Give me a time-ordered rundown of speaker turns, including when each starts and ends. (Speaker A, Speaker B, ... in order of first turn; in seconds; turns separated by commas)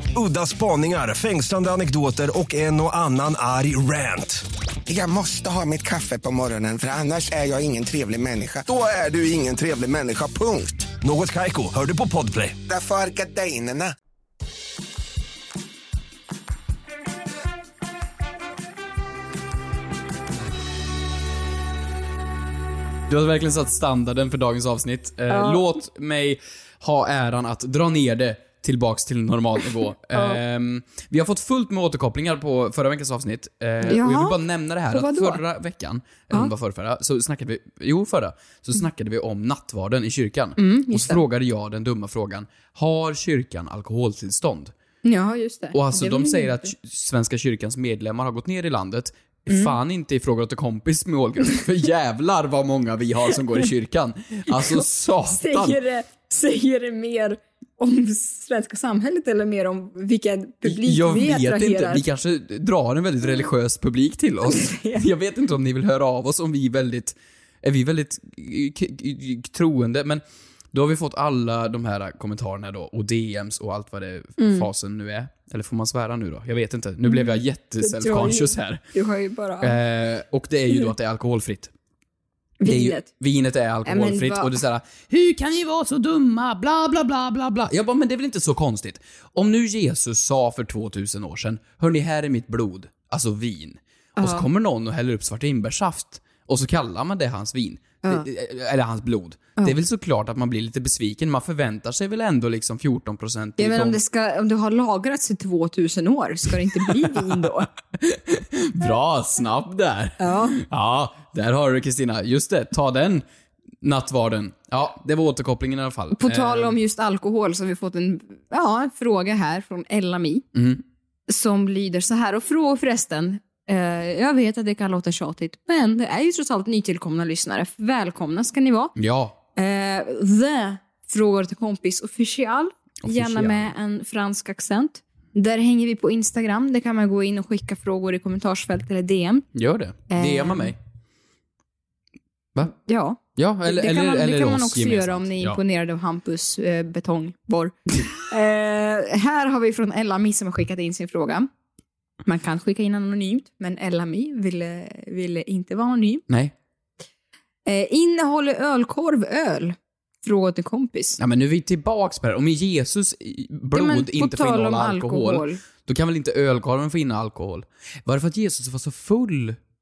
Speaker A: 0.1-4.4, Speaker B: 4.9-10.9, Speaker A: 11.0-12.6, Speaker B: 12.7-13.9, Speaker C: 23.1-44.7, Speaker D: 25.3-25.7, Speaker D: 30.1-30.4, Speaker D: 33.8-34.4, Speaker D: 34.9-35.4, Speaker D: 40.6-41.2, Speaker D: 45.0-46.7, Speaker C: 45.7-55.8, Speaker D: 49.5-49.7, Speaker D: 54.5-62.0, Speaker C: 60.6-70.2, Speaker D: 64.5-65.0, Speaker C: 70.7-78.8, Speaker D: 74.4-74.7, Speaker D: 77.1-79.8, Speaker C: 79.6-81.7, Speaker D: 82.6-83.1, Speaker C: 82.7-104.0, Speaker D: 83.8-84.6, Speaker D: 94.2-94.5, Speaker D: 103.6-107.7, Speaker C: 107.0-107.3, Speaker C: 108.0-113.2, Speaker D: 110.2-110.6, Speaker C: 113.8-116.8, Speaker D: 116.1-120.5, Speaker C: 120.5-120.8, Speaker D: 121.3-128.9, Speaker C: 129.0-129.4, Speaker D: 129.6-139.5, Speaker C: 133.0-133.7, Speaker C: 139.5-140.8, Speaker D: 140.1-140.7, Speaker D: 142.6-151.5, Speaker C: 143.4-145.6, Speaker D: 152.3-156.2, Speaker C: 156.3-156.5, Speaker D: 157.7-161.2, Speaker C: 161.2-169.6, Speaker D: 163.7-165.6